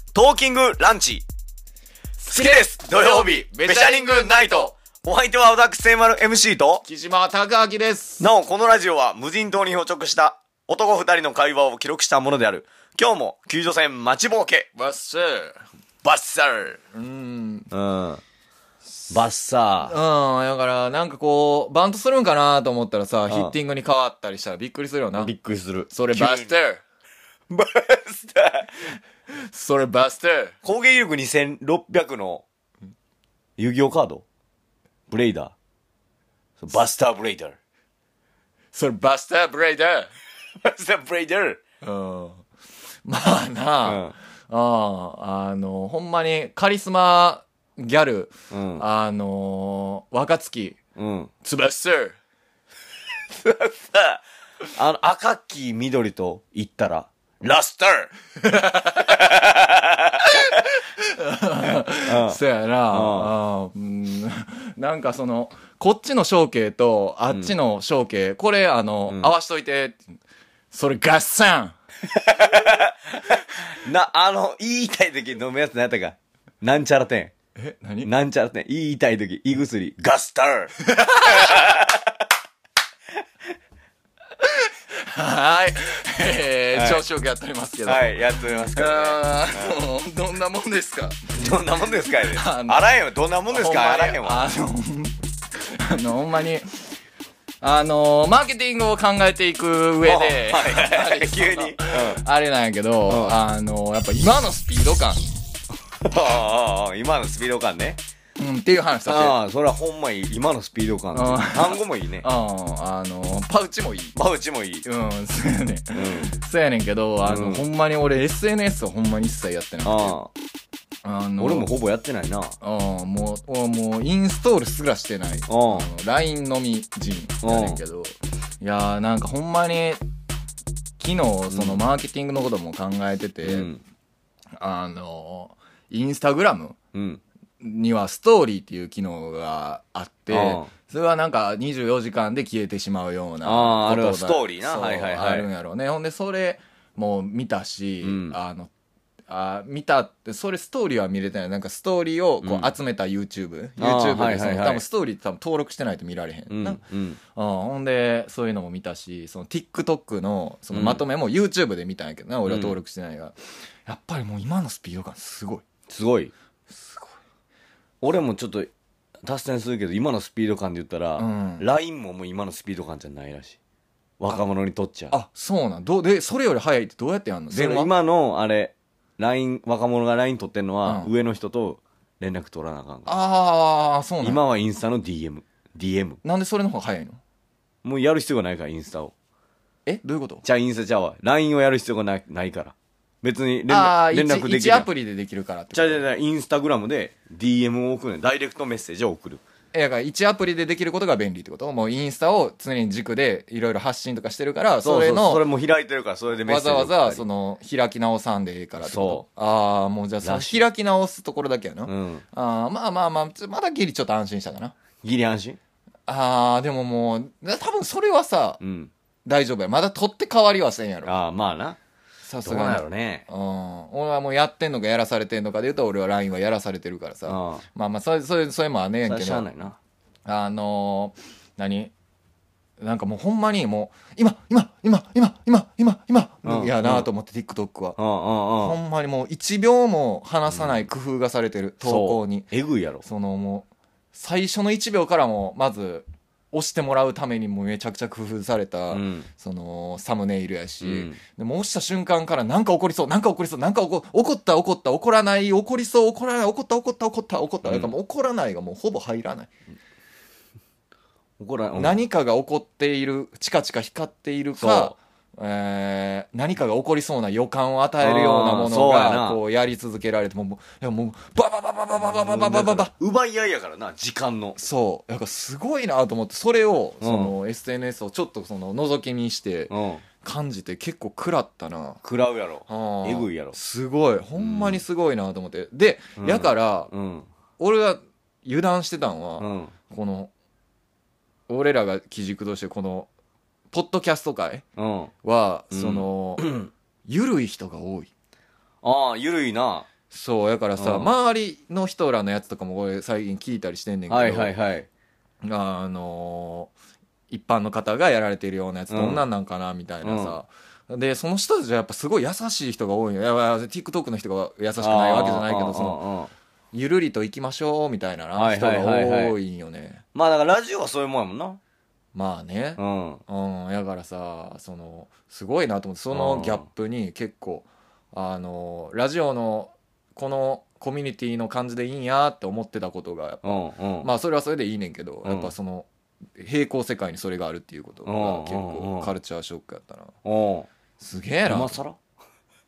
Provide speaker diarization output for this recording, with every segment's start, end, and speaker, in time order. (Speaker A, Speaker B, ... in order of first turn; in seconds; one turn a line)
Speaker A: 0.1-1.2
Speaker B: 2.2-4.8
Speaker A: 2.3-6.8
Speaker B: 6.8-8.3
Speaker A: 8.2-14.7
Speaker B: 14.8-17.7
Speaker A: 17.7-18.2
Speaker A: 19.1-19.9
Speaker B: 19.8-25.3
Speaker A: 23.3-23.5
Speaker A: 25.2-26.5
Speaker B: 25.9-26.8
Speaker A: 27.5-28.8
Speaker B: 29.4-30.5
Speaker A: 30.6-32.5
Speaker A: 33.6-34.2
Speaker A: 35.1-35.5
Speaker A: 36.6-37.6
Speaker B: 38.7-40.1
Speaker A: 40.6-41.6
Speaker B: 41.8-42.5
Speaker B: 43.1-50.8
Speaker A: 43.9-44.1
Speaker A: 48.5-48.9
Speaker A: 51.0-51.3
Speaker B: 51.4-52.1
Speaker A: 53.4-54.2
Speaker A: 54.8-58.1
Speaker B: 58.4-59.2
Speaker A: 59.2-60.1
Speaker B: 60.2-70.0
Speaker A: 62.1-63.3
Speaker A: 67.3-67.5
Speaker B: 70.7-71.8
Speaker A: 72.1-77.3
Speaker B: 77.6-78.1
Speaker A: 78.0-80.7
Speaker B: 80.8-81.7
Speaker A: 81.4-82.1
Speaker B: 84.4-91.5
Speaker A: 86.7-87.0
Speaker A: 87.8-89.8
Speaker A: 91.3-94.5
Speaker B: 92.3-92.8
Speaker B: 93.5-95.2
Speaker B: 95.8-96.9
Speaker B: 97.6-105.4
Speaker A: 100.0-102.2
Speaker A: 103.1-103.4
Speaker A: 106.0-108.0
Speaker B: 108.4-109.4
Speaker A: 109.0-112.3
Speaker B: 111.1-114.2
Speaker A: 114.2-114.9
Speaker B: 114.8-120.2
Speaker A: 115.9-116.3
Speaker A: 117.2-117.7
Speaker A: 119.8-120.3
Speaker B: 121.0-121.7
Speaker A: 121.4-122.6
Speaker B: 122.6-130.0
Speaker A: 125.5-125.9
Speaker A: 127.4-127.8
Speaker B: 131.0-133.7
Speaker A: 131.5-131.8
Speaker A: 133.4-133.8
Speaker B: 134.6-136.8
Speaker A: 136.9-137.2
Speaker B: 137.6-148.7
Speaker A: 140.3-140.7
Speaker A: 143.4-145.5
Speaker A: 148.0-148.4
Speaker B: 149.3-156.8
Speaker A: 152.4-152.7
Speaker A: 153.8-154.8
Speaker A: 156.5-157.2
Speaker B: 157.3-165.6
Speaker A: 160.7-161.0
Speaker A: 162.5-162.8
Speaker A: 165.9-166.3
Speaker B: 166.7-167.2
Speaker A: 168.0-168.7
Speaker A: 169.2-173.6
Speaker B: 171.2-171.7
Speaker A: 174.2-175.2
Speaker B: 175.1-177.9
Speaker A: 177.5-183.1
Speaker B: 180.8-181.1
Speaker B: 183.1-184.4
Speaker A: 184.2-186.2
Speaker B: 186.2-187.2
Speaker A: 187.8-189.1
Speaker B: 189.9-190.4
Speaker A: 190.4-194.9
Speaker B: 193.7-196.0
Speaker A: 195.7-199.4
Speaker B: 199.7-205.4
Speaker A: 204.8-207.2
Speaker B: 206.4-214.8
Speaker A: 208.8-209.2
Speaker A: 210.2-210.6
Speaker A: 211.9-212.2
Speaker A: 215.0-215.6
Speaker B: 216.1-218.6
Speaker A: 218.6-218.9
Speaker B: 219.3-221.2
Speaker A: 221.0-221.8
Speaker B: 222.2-229.4
Speaker A: 222.4-223.3
Speaker A: 227.3-227.6
Speaker A: 229.1-229.8
Speaker B: 230.3-231.9
Speaker B: 232.8-238.0
Speaker A: 236.4-237.1
Speaker A: 238.0-238.8
Speaker B: 238.6-242.5
Speaker A: 240.5-240.8
Speaker A: 241.8-243.0
Speaker B: 243.0-259.5
Speaker A: 248.9-249.3
Speaker A: 250.8-251.2
Speaker A: 257.6-257.9
Speaker A: 261.4-262.0
Speaker B: 261.8-272.9
Speaker A: 264.6-265.0
Speaker A: 268.0-269.4
Speaker A: 272.0-274.6
Speaker B: 274.6-282.0
Speaker A: 277.0-277.4
Speaker A: 279.7-280.1
Speaker A: 282.0-283.6
Speaker B: 282.7-286.9
Speaker A: 284.4-284.8
Speaker A: 286.2-287.3
Speaker B: 287.6-290.3
Speaker A: 289.4-289.8
Speaker B: 291.5-293.1
Speaker B: 293.7-294.6
Speaker A: 294.8-295.1
Speaker B: 295.2-296.4
Speaker A: 295.7-296.7
Speaker B: 297.1-298.1
Speaker A: 298.8-299.9
Speaker B: 300.1-304.5
Speaker A: 300.8-301.1
Speaker A: 304.1-304.9
Speaker B: 305.4-306.7
Speaker B: 307.3-316.0
Speaker A: 308.9-309.3
Speaker A: 310.0-310.4
Speaker A: 314.8-316.3
Speaker B: 316.7-320.0
Speaker A: 318.4-319.4
Speaker A: 320.1-321.6
Speaker B: 322.1-340.1
Speaker A: 322.8-323.2
Speaker A: 326.1-326.7
Speaker A: 333.4-334.1
Speaker A: 335.2-335.5
Speaker A: 338.1-339.1
Speaker A: 340.2-340.7
Speaker B: 341.0-341.8
Speaker A: 341.5-342.0